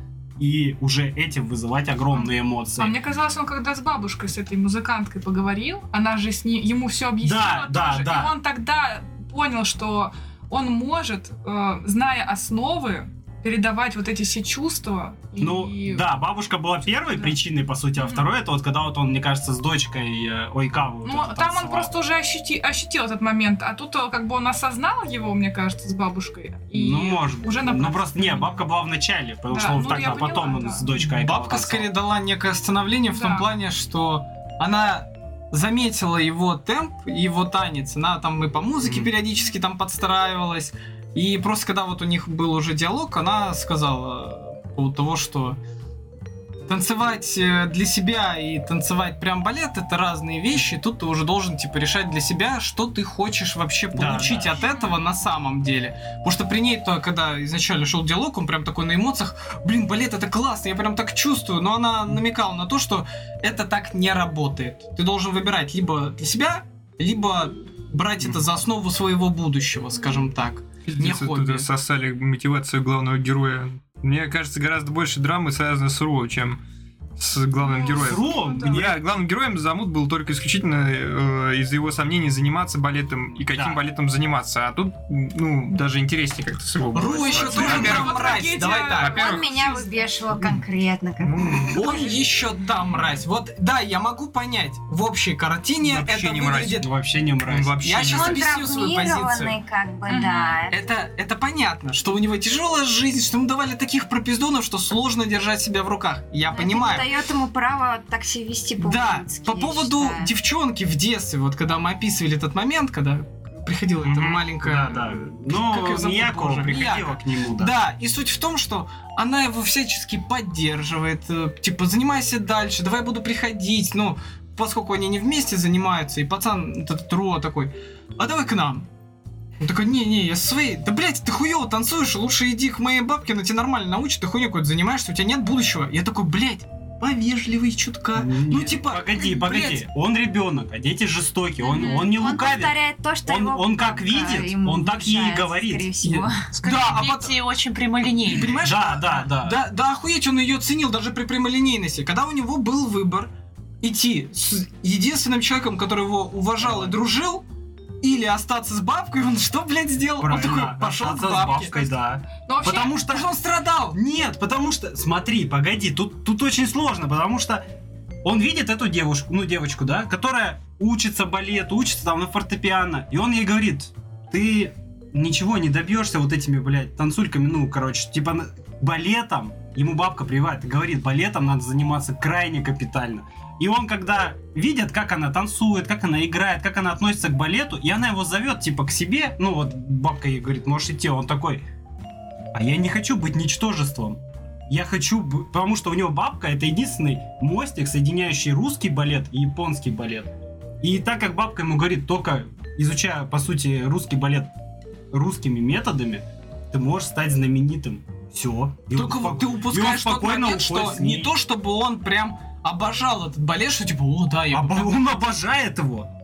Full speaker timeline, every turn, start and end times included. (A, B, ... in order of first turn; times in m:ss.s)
0:00.4-0:03.0 A
0:02.1-0:16.0 B
0:07.2-0:08.4 A
0:15.4-0:21.9 A
0:18.0-0:18.3 B
0:21.0-0:28.5 B
0:26.7-0:31.9 A
0:29.5-0:30.9 B
0:31.1-0:45.6 C
0:33.1-0:33.5 B
0:38.8-0:39.1 A
0:46.7-1:11.7 C
0:53.9-0:54.6 A
0:54.6-0:55.0 B
1:10.9-1:16.6 D
1:17.2-1:28.4 D
1:17.6-1:18.8 B
1:17.8-1:19.0 A
1:23.5-1:23.8 A
1:26.9-1:29.2 C
1:27.3-1:30.0 B
1:27.6-1:27.9 A
1:29.0-1:29.6 D
1:29.0-1:31.8 E
1:31.2-1:31.9 D
1:31.7-1:36.9 C
1:35.8-1:36.8 D
1:36.7-1:38.3 A
1:37.4-1:38.4 D
1:37.8-1:39.6 C
1:38.1-1:40.8 E
1:40.1-1:40.6 B
1:40.7-1:47.1 C
1:46.5-1:50.3 E
1:48.8-2:08.9 C
1:54.0-1:57.8 A
2:09.6-2:19.8 C
2:18.1-2:26.2 A
2:21.6-2:26.5 E
2:26.5-2:28.6 F
2:26.6-2:27.4 C
2:28.3-2:37.4 C
2:28.5-2:29.6 A
2:36.6-2:37.0 A
2:38.0-2:41.8 C
2:40.2-2:43.3 A
2:42.4-2:43.0 B
2:43.1-2:44.0 C
2:43.9-2:47.6 A
2:48.2-3:11.6 A
3:12.5-3:24.5 A
3:25.1-3:31.3 A
3:28.9-3:35.0 C
3:34.5-3:36.1 A